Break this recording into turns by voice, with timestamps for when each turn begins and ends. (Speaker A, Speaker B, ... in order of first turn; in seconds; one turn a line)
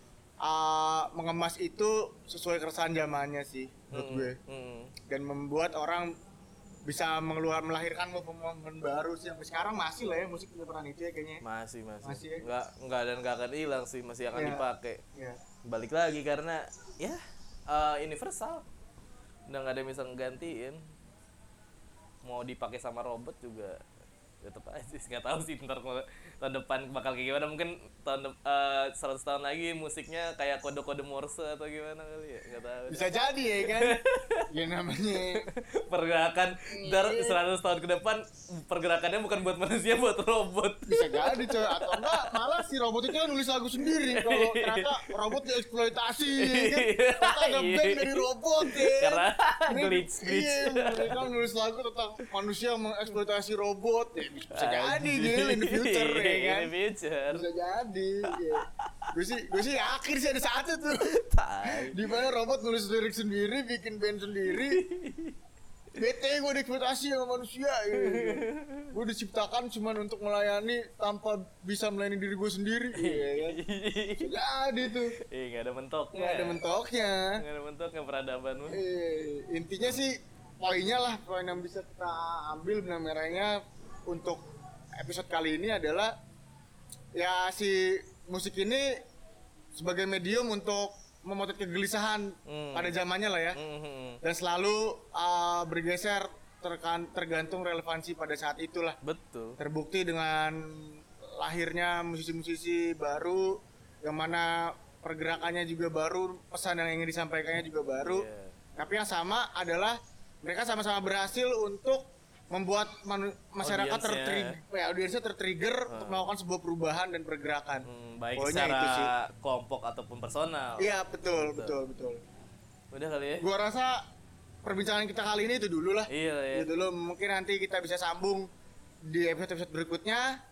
Speaker A: 0.4-4.4
Speaker B: 3.9-4.9
Speaker A: 5.1-6.1
Speaker A: 6.8-11.4
Speaker B: 11.4-15.0
Speaker A: 12.0-12.4
Speaker A: 14.3-15.4
Speaker B: 15.6-18.7
Speaker B: 19.5-20.8
Speaker B: 22.2-23.8
Speaker B: 24.4-34.5
Speaker A: 32.9-35.5
Speaker B: 35.2-42.5
Speaker A: 36.7-37.4
Speaker A: 40.9-56.7
Speaker B: 43.9-45.4
Speaker B: 46.4-51.3
Speaker B: 54.5-57.5
Speaker A: 57.3-61.1
Speaker B: 58.3-59.1
Speaker B: 61.0-62.2
Speaker A: 61.6-64.8
Speaker B: 64.5-65.4
Speaker A: 66.0-73.6
Speaker B: 67.9-69.0
Speaker B: 72.9-74.3
Speaker A: 74.2-75.2
Speaker B: 75.2-76.6
Speaker A: 76.1-77.4
Speaker B: 77.4-78.8
Speaker A: 78.7-84.4
Speaker A: 85.0-86.1
Speaker A: 87.2-89.0
Speaker A: 89.7-93.6
Speaker B: 92.5-93.0
Speaker B: 93.5-94.2
Speaker A: 94.2-99.0
Speaker B: 99.0-99.6
Speaker A: 99.6-117.8
Speaker B: 108.0-108.6
Speaker B: 113.6-114.6
Speaker B: 115.9-116.3
Speaker B: 117.9-121.8
Speaker A: 118.4-119.1
Speaker A: 120.8-122.2
Speaker B: 122.9-123.5
Speaker A: 123.4-124.0
Speaker A: 124.6-128.5
Speaker B: 126.1-126.7
Speaker A: 129.1-130.4